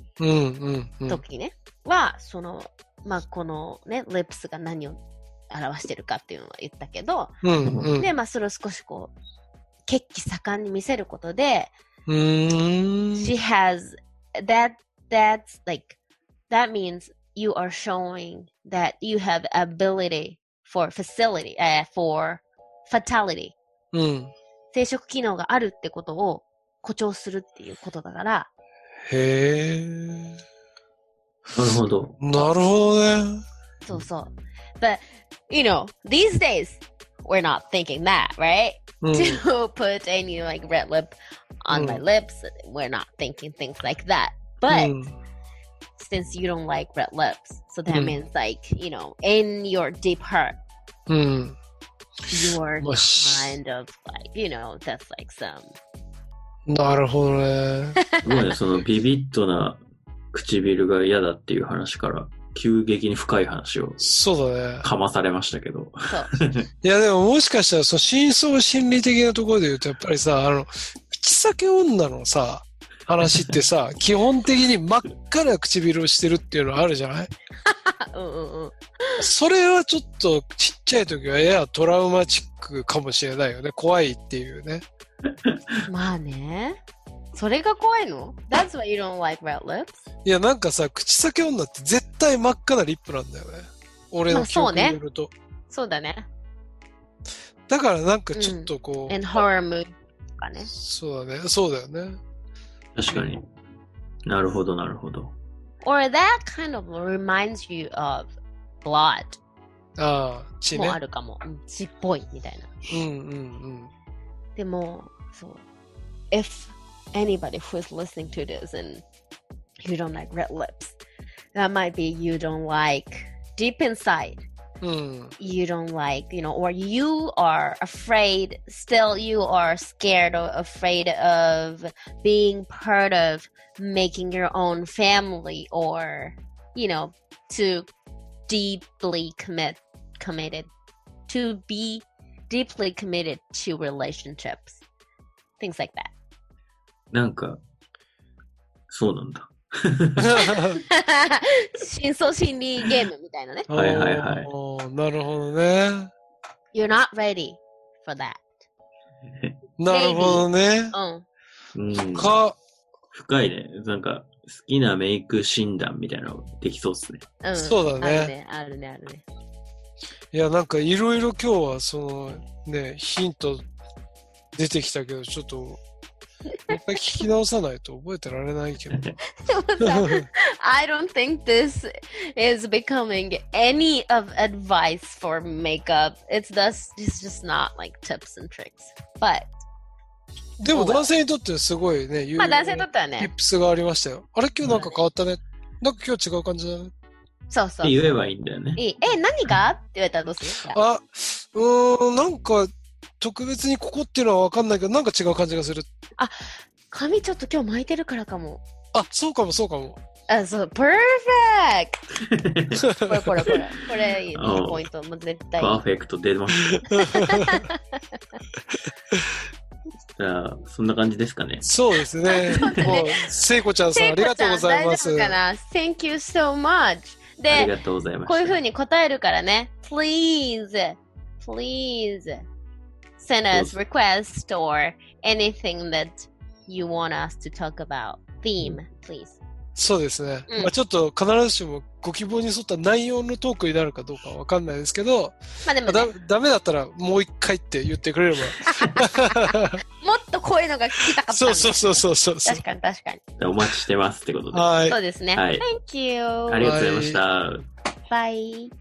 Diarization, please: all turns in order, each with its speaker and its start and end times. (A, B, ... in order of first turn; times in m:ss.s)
0:00.2-0:01.2 A
0:01.1-0:05.0 B
0:05.5-0:07.3 B
0:07.4-0:08.1 A
0:08.0-0:09.1 B
0:09.9-0:11.7 B
0:12.1-0:13.3 A
0:13.2-0:16.0 B
0:16.5-0:23.5 B
0:23.9-0:24.3 A
0:24.7-0:28.5 B
0:29.0-0:30.4 A
0:31.5-0:32.1 C
0:32.2-0:33.4 A
0:33.8-0:44.9 B
0:39.0-0:39.4 A
0:41.7-0:42.0 A
0:44.7-0:45.1 A
0:46.0-0:50.6 B
0:47.9-0:48.2 A
0:51.1-0:51.6 A
0:52.3-0:55.7 B
0:52.8-0:53.6 A
0:56.7-0:58.0 A
0:58.0-0:58.4 B
0:58.2-0:59.8 C
1:00.3-1:04.1 C
1:04.0-1:04.8 A
1:04.8-1:06.7 C
1:06.8-1:17.3 A
1:17.6-1:19.3 B
1:19.2-1:24.8 A
1:25.9-1:26.8 B
1:27.3-1:30.0 B
1:30.2-1:35.3 A
1:34.3-1:35.0 B
1:35.7-1:36.2 B
1:37.7-1:39.2 A
1:38.3-1:40.7 B
1:40.7-1:42.2 A
1:43.0-1:43.4 C
1:44.2-1:45.3 C
1:45.8-1:48.3 B
1:48.8-1:49.4 B
1:50.0-1:51.0 A
1:50.7-1:52.9 B
1:52.9-1:53.9 A
1:54.6-1:55.6 B
1:56.3-1:59.0 B
1:59.8-2:01.0 B
2:01.5-2:04.4 B
2:04.8-2:05.3 A
2:05.4-2:17.9 B
2:18.5-2:20.7 B
2:21.3-2:24.8 B
2:25.6-2:26.1 B
2:27.1-2:27.6 C
2:28.9-2:30.6 C
2:30.2-2:30.8 A
2:30.4-2:33.7 B
2:33.7-2:36.1 A
2:33.7-2:34.5 C
2:36.7-2:38.5 B
2:39.2-2:39.6 C
2:39.8-2:40.9 A
2:39.9-2:41.2 B
2:41.7-2:42.3 C
2:42.1-2:42.6 A
2:43.1-2:47.2 C
2:47.4-2:49.2 B
2:47.5-2:48.3 A
2:50.3-2:53.6 A
2:54.5-2:55.8 A
2:56.5-2:57.2 B
2:56.7-2:59.0 A
2:59.2-3:09.5 B
2:59.8-3:00.2 A
3:10.6-3:16.9 A
3:10.7-3:11.1 B
3:12.4-3:13.3 B
3:14.7-3:15.0 B
3:17.5-3:17.9 B
3:17.8-3:18.8 C
3:18.8-3:20.8 B
3:20.7-3:25.9 A
3:26.2-3:28.6 B
3:28.9-3:30.0 A
3:30.3-3:32.0 B
3:32.2-3:32.8 C
3:32.8-3:33.5 A
3:33.0-3:35.8 B
3:34.3-3:34.8 C
3:35.6-3:37.1 C
3:36.9-3:38.4 B
3:37.0-3:37.6 A
3:40.2-3:41.7 C
3:41.6-3:45.4 A
3:42.3-3:43.3 B
3:42.6-3:42.9 C
3:43.9-3:47.7 B
3:47.5-3:48.6 C
3:48.2-3:52.4 B
3:53.2-3:59.4 B
3:53.5-3:53.8 C
3:59.8-4:09.8 A
4:05.6-4:06.1 B
4:08.6-4:13.2 B
4:11.1-4:12.6 A
4:13.4-4:14.7 C
4:14.5-4:15.0 A
4:14.9-4:16.7 B
4:15.3-4:15.6 C
4:16.5-4:17.6 C
4:16.6-4:17.2 A
4:18.1-4:18.7 B